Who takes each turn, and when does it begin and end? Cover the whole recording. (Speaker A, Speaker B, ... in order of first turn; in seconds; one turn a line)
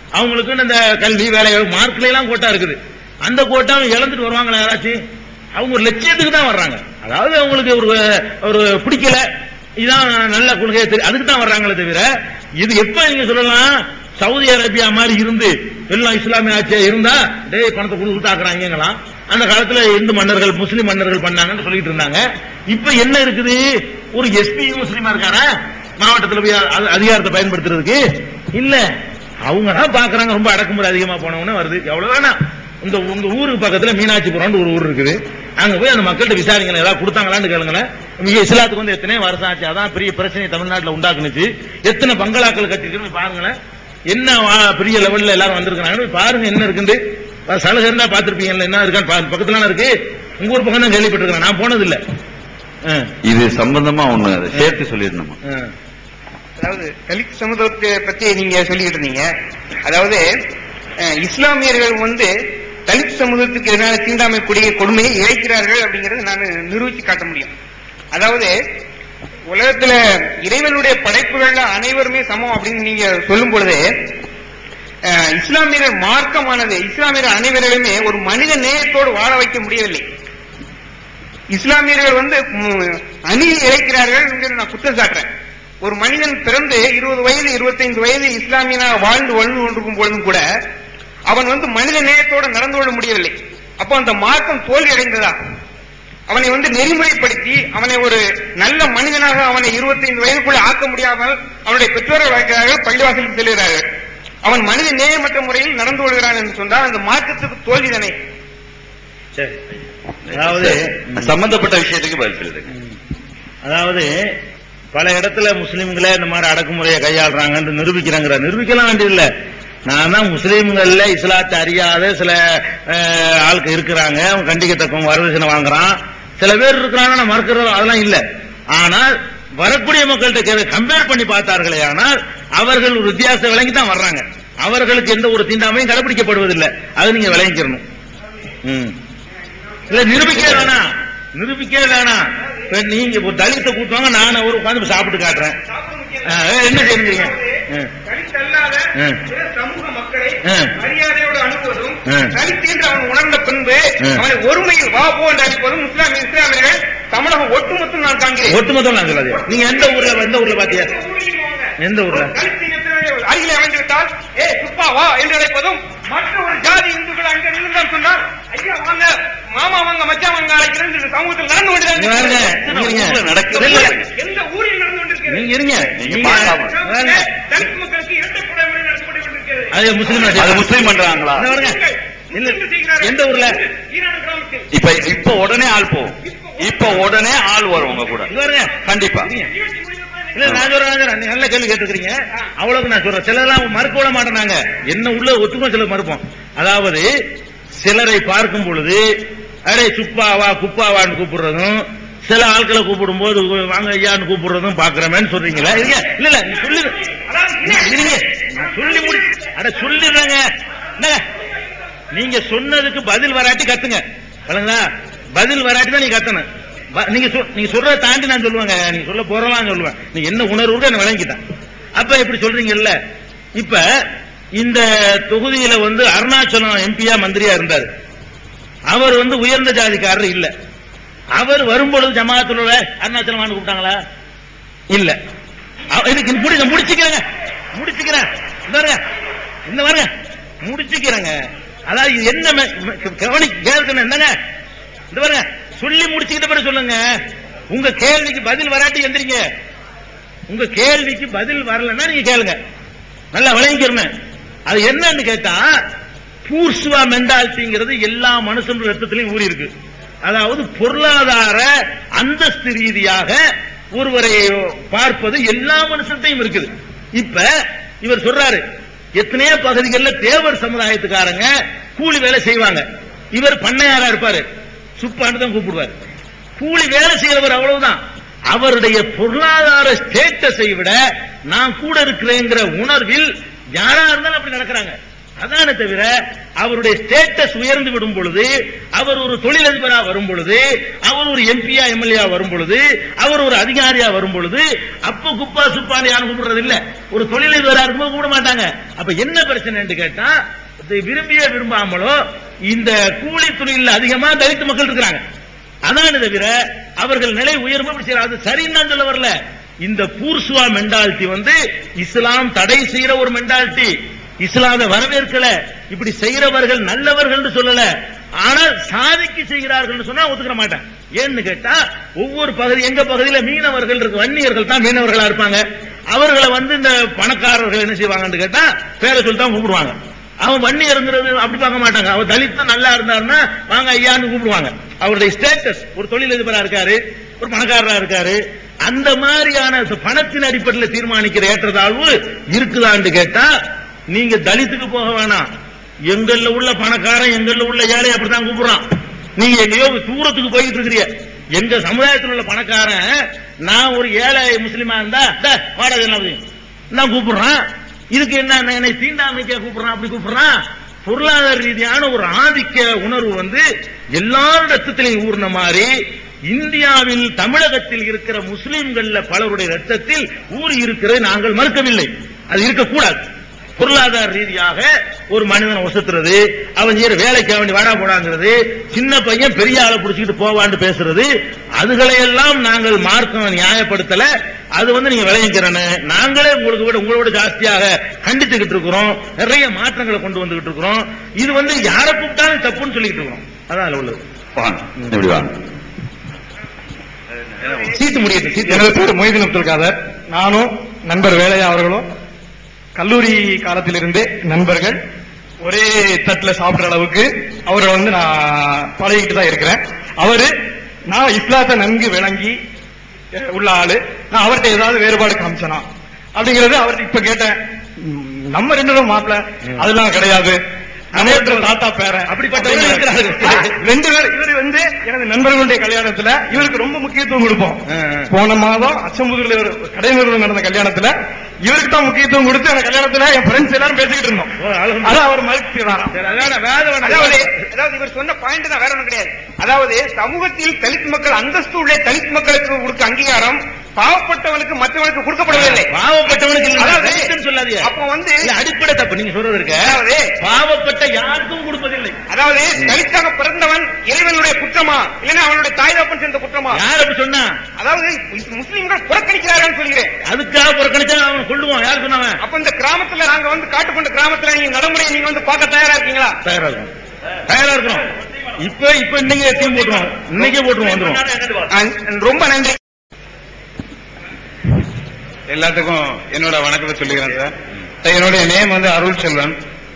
Speaker A: 0.2-5.0
Speaker A: 5.6-9.2
Speaker A: 9.8-25.5
Speaker A: 26.0-28.0
Speaker A: 28.6-28.9
Speaker A: 29.5-43.5
Speaker A: 44.1-52.0
Speaker A: 52.9-53.1
Speaker B: 53.2-55.4
Speaker A: 55.5-55.7
Speaker C: 56.6-59.3
Speaker C: 59.9-60.2
Speaker C: 61.0-62.3
Speaker C: 62.9-67.5
Speaker C: 68.1-68.5
Speaker C: 69.5-73.8
Speaker C: 75.1-80.0
Speaker C: 81.5-85.3
Speaker C: 85.8-90.4
Speaker C: 91.3-95.3
Speaker C: 96.3-103.8
Speaker C: 104.4-108.2
Speaker B: 110.3-112.7
Speaker A: 110.3-111.3
Speaker A: 113.7-114.1
Speaker A: 114.9-119.3
Speaker A: 119.9-137.8
Speaker A: 138.6-139.0
Speaker A: 139.9-145.6
Speaker C: 139.9-140.6
Speaker C: 145.7-158.6
Speaker A: 146.2-147.9
Speaker A: 149.0-149.2
Speaker A: 150.4-150.7
Speaker A: 152.1-152.3
Speaker A: 158.5-160.9
Speaker C: 159.4-172.6
Speaker A: 161.8-162.3
Speaker A: 172.0-173.9
Speaker B: 172.5-174.1
Speaker C: 173.5-175.5
Speaker A: 175.3-177.3
Speaker B: 175.9-176.8
Speaker C: 176.7-184.7
Speaker A: 179.7-180.8
Speaker B: 180.1-181.5
Speaker A: 181.3-181.8
Speaker A: 182.3-183.6
Speaker B: 184.7-188.3
Speaker C: 186.2-187.1
Speaker A: 188.3-189.5
Speaker B: 188.8-189.3
Speaker C: 189.6-190.3
Speaker A: 190.3-197.1
Speaker A: 197.8-199.1
Speaker A: 199.7-207.0
Speaker C: 207.2-208.2
Speaker A: 207.6-210.4
Speaker A: 211.0-211.2
Speaker A: 212.1-216.5
Speaker A: 217.0-221.4
Speaker A: 222.0-223.0
Speaker A: 223.6-223.8
Speaker A: 224.6-227.9
Speaker A: 228.9-230.5
Speaker A: 231.4-234.0
Speaker A: 234.9-235.2
Speaker A: 235.9-239.0
Speaker A: 239.7-240.1
Speaker A: 240.6-241.3
Speaker A: 241.9-244.3
Speaker A: 245.1-247.0
Speaker A: 247.7-249.4
Speaker A: 250.5-252.6
Speaker A: 253.3-254.1
Speaker A: 254.7-255.7
Speaker A: 256.5-259.7
Speaker A: 260.2-263.4
Speaker A: 263.9-267.5
Speaker A: 268.0-268.6
Speaker A: 269.2-272.8
Speaker A: 273.4-274.4
Speaker A: 275.0-275.9
Speaker A: 276.6-278.0
Speaker A: 278.5-281.0
Speaker A: 281.5-302.2
Speaker A: 302.7-305.2
Speaker A: 305.9-317.9
Speaker A: 318.4-343.5
Speaker A: 344.1-345.5
Speaker A: 346.1-348.8
Speaker A: 349.4-356.4
Speaker A: 356.9-357.6
Speaker A: 358.1-363.6
Speaker A: 364.1-365.9
Speaker A: 366.5-373.3
Speaker A: 373.8-394.2
Speaker B: 394.6-395.5
Speaker A: 397.6-398.9
Speaker D: 398.7-402.1
Speaker D: 403.0-405.0
Speaker D: 405.6-410.5
Speaker D: 411.1-412.6
Speaker D: 413.3-415.9
Speaker D: 416.4-420.6
Speaker A: 421.1-423.8
Speaker D: 421.1-431.1
Speaker A: 427.9-428.3
Speaker D: 431.7-434.5
Speaker A: 434.6-435.2
Speaker D: 435.0-436.2
Speaker A: 436.1-437.5
Speaker C: 437.0-445.9
Speaker A: 445.5-447.9
Speaker C: 446.7-447.3
Speaker C: 447.8-448.5
Speaker A: 448.4-452.2
Speaker C: 449.8-450.3
Speaker C: 452.3-456.8
Speaker A: 456.7-457.5
Speaker C: 457.8-460.2
Speaker A: 460.3-462.4
Speaker C: 462.4-466.4
Speaker A: 466.4-466.9
Speaker A: 467.5-468.1
Speaker A: 468.6-471.4
Speaker C: 471.7-472.8
Speaker E: 475.5-479.6